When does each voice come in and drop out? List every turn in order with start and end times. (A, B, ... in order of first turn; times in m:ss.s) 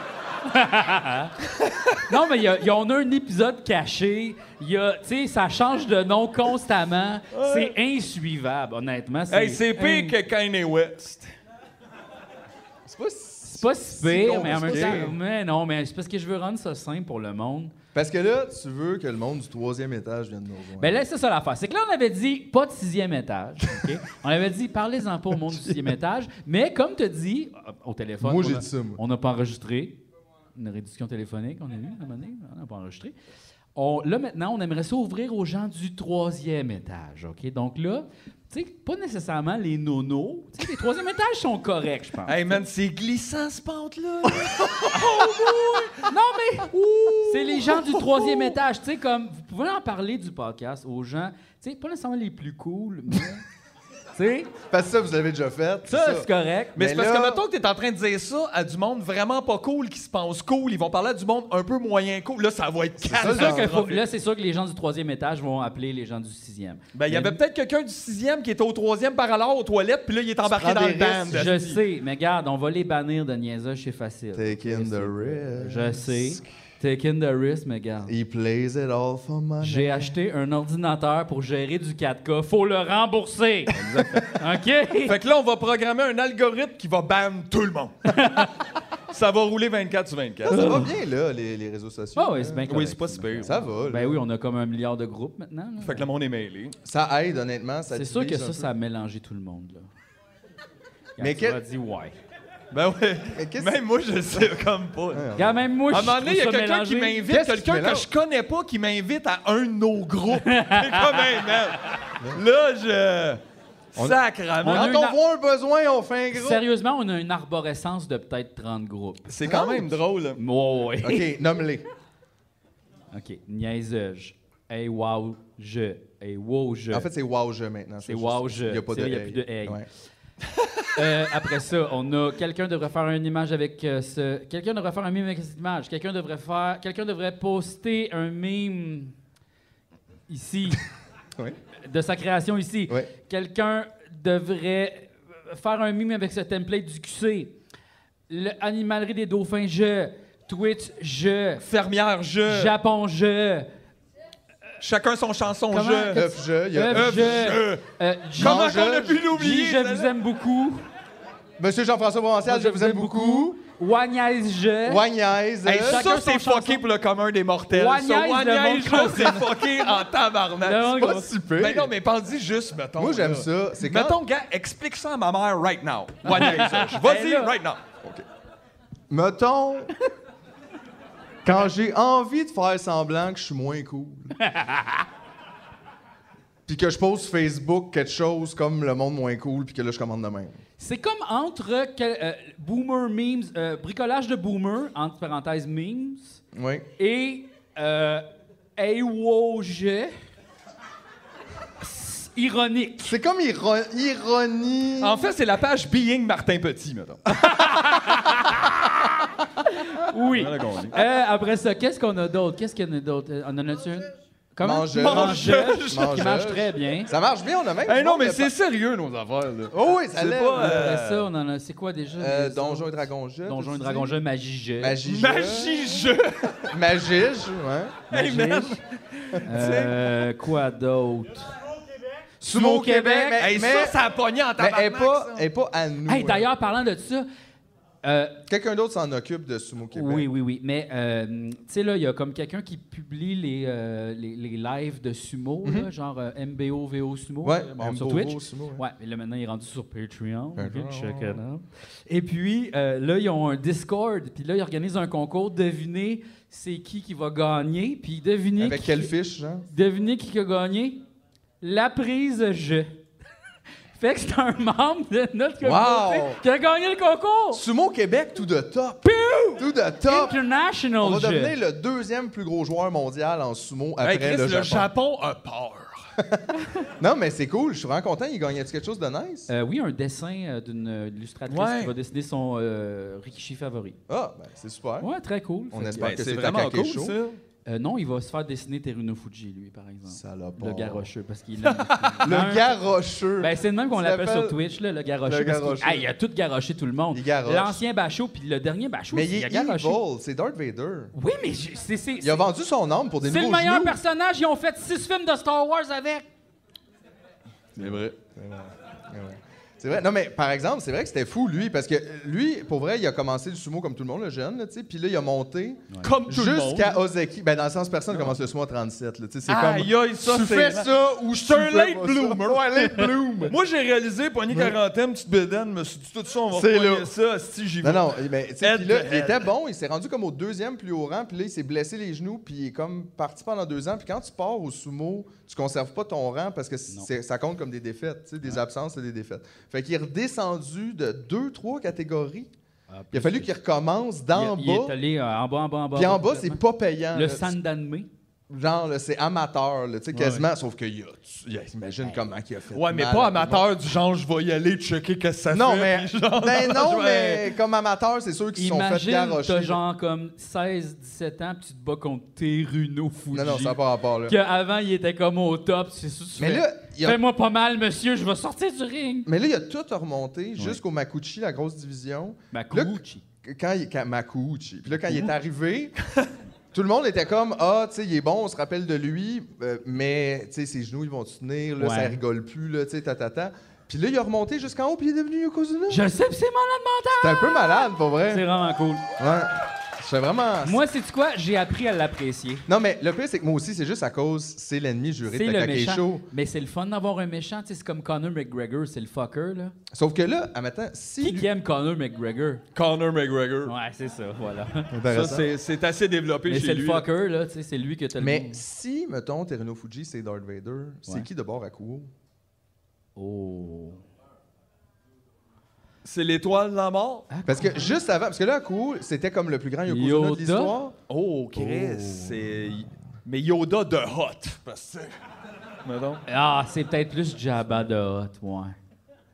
0:00.4-0:01.3 A
0:01.5-0:02.0 B
0:02.1-0:10.1 A
0:07.3-0:07.7 B
0:09.3-0:11.3 B
0:12.8-0:15.1 C
0:13.5-0:17.7 A
0:14.5-0:15.1 B
0:17.9-0:21.0 C
0:20.8-0:30.0 A
0:28.2-0:29.0 C
0:30.5-0:33.1 A
0:33.7-0:42.4 A
0:42.3-0:46.0 B
0:44.4-0:44.9 C
0:46.1-0:46.7 A
0:46.8-0:48.4 B
0:47.2-0:53.4 A
0:54.1-0:54.5 A
0:54.7-0:57.4 C
0:55.9-0:56.8 A
0:56.8-1:04.0 B
1:03.0-1:03.8 C
1:03.2-1:07.4 A
1:06.9-1:11.8 B
1:10.4-1:11.5 C
1:11.3-1:18.1 A
1:14.3-1:16.4 C
1:18.1-1:20.2 C
1:19.6-1:23.7 A
1:23.7-1:24.4 B
1:24.3-1:25.1 A
1:25.0-1:27.9 B
1:28.1-1:28.5 A
1:29.1-1:30.6 B
1:30.4-1:32.7 C
1:30.5-1:30.9 A
1:32.2-1:36.0 A
1:32.7-1:33.7 B
1:33.4-1:34.2 C
1:35.8-1:36.8 B
1:36.8-1:38.7 C
1:37.9-1:39.9 A
1:41.2-1:42.1 A
1:41.2-1:41.6 C
1:42.7-1:45.3 B
1:43.3-1:43.8 C
1:45.1-1:45.6 C
1:45.4-1:47.2 A
1:45.9-1:53.4 B
1:47.3-1:48.1 C
1:50.4-1:51.4 A
1:53.9-1:54.9 B
1:54.0-1:56.6 C
1:54.6-1:55.2 A
1:56.3-1:59.3 A
1:59.3-2:00.4 B
1:59.4-2:00.0 C
2:00.4-2:01.3 A
2:01.0-2:01.8 C
2:03.1-2:07.1 A
2:06.9-2:09.9 C
2:08.0-2:09.8 A
2:11.0-2:19.1 A
2:20.3-2:20.8 A
2:21.8-2:27.5 A
2:28.3-2:31.6 A
2:31.6-2:32.7 B
2:32.4-2:33.7 A
2:34.8-2:36.2 B
2:35.7-2:38.7 A
2:36.1-2:37.5 C
2:36.9-2:37.8 B
2:38.4-2:40.1 B
2:38.4-2:39.2 C
2:39.3-2:40.8 A
2:41.6-2:43.6 C
2:42.4-2:45.0 A
2:44.8-2:46.0 C
2:45.6-2:50.9 B
2:45.8-2:46.8 A
2:47.7-2:49.6 A
2:50.6-2:51.3 A
2:50.8-2:51.9 C
2:51.6-2:57.8 B
2:53.0-2:54.2 C
2:56.2-2:57.5 A
2:59.1-2:59.9 C
3:01.4-3:04.3 C
3:04.4-3:05.0 A
3:06.6-3:10.6 C
3:10.8-3:16.4 A
3:16.5-3:16.8 C
3:17.0-3:18.2 A
3:18.8-3:20.1 A
3:21.8-3:23.1 A
3:23.0-3:25.2 C
3:25.0-3:27.3 B
3:27.5-3:28.5 A
3:29.7-3:37.1 A
3:30.3-3:31.0 B
3:34.6-3:38.5 C
3:35.0-3:36.2 B
3:37.8-3:41.3 B
3:39.7-3:41.0 C
3:40.6-3:45.0 A
3:42.2-3:44.2 C
3:44.8-3:48.0 C
3:45.0-3:46.6 B
3:48.1-3:48.8 A
3:48.1-3:50.0 B
3:49.4-3:51.5 A
3:49.6-3:49.8 C
3:52.4-3:53.4 A
3:52.4-3:54.0 C
3:53.4-3:55.4 B
3:54.6-3:56.5 C
3:56.1-3:57.3 A
3:58.0-3:58.4 A
3:58.5-4:00.3 C
3:59.9-4:19.1 A
4:07.4-4:08.8 C
4:10.6-4:11.4 C
4:18.6-4:19.7 C
4:19.7-4:21.0 A
4:21.6-4:23.0 A
4:23.9-4:27.6 A
4:25.6-4:26.4 C
4:27.5-4:29.0 C
4:29.0-4:31.5 A
4:29.6-4:30.4 C
4:31.0-4:34.9 C
4:34.0-4:36.1 B
4:37.0-4:39.5 C
4:39.5-4:44.0 A
4:41.5-4:41.9 B
4:44.1-4:45.1 C
4:45.0-4:46.1 A
4:45.7-4:47.2 C
4:46.0-4:47.4 B
4:47.6-4:52.7 A
4:50.1-4:51.1 C
4:51.6-4:52.2 B
4:52.2-4:54.6 C
4:53.4-5:00.0 A
4:55.2-4:56.1 C
4:57.1-4:57.8 C
4:59.1-5:01.1 C
5:01.1-5:02.5 A
5:02.2-5:04.0 C
5:03.2-5:06.2 A
5:07.8-5:23.6 C
5:16.0-5:17.0 B
5:18.1-5:18.4 B
5:19.5-5:29.5 B
5:24.5-5:24.8 C
5:26.5-5:27.1 C
5:27.8-5:42.5 C
5:42.9-5:43.5 A
5:43.1-5:45.0 C
5:44.3-5:46.6 A
5:45.9-5:47.5 C
5:47.1-5:48.1 A
5:48.5-5:53.7 C
5:50.1-5:50.4 A
5:52.7-5:57.5 B
5:55.5-5:59.8 C
5:58.6-6:09.3 A
6:03.3-6:04.4 C
6:06.4-6:07.2 C
6:09.2-6:16.0 C
6:12.5-6:13.2 A
6:14.9-6:15.3 A
6:16.7-6:26.0 C
6:21.8-6:22.2 A
6:25.9-6:29.0 A
6:27.2-6:28.4 C
6:29.2-6:30.8 C
6:30.6-6:32.6 A
6:32.7-6:36.2 C
6:35.3-6:39.7 A
6:39.9-6:41.5 C
6:41.2-6:42.6 A
6:42.7-6:43.7 B
6:43.6-6:44.9 A
6:44.9-6:45.5 C
6:45.1-6:47.1 B
6:46.5-6:48.6 A
6:48.2-6:52.1 C
6:53.2-6:54.0 A
6:56.0-6:57.3 B
6:57.3-6:57.9 A
6:57.4-7:01.0 C
6:59.9-7:00.7 A
7:01.1-7:05.1 B
7:01.5-7:02.4 C
7:05.8-7:06.2 B
7:06.3-7:08.8 A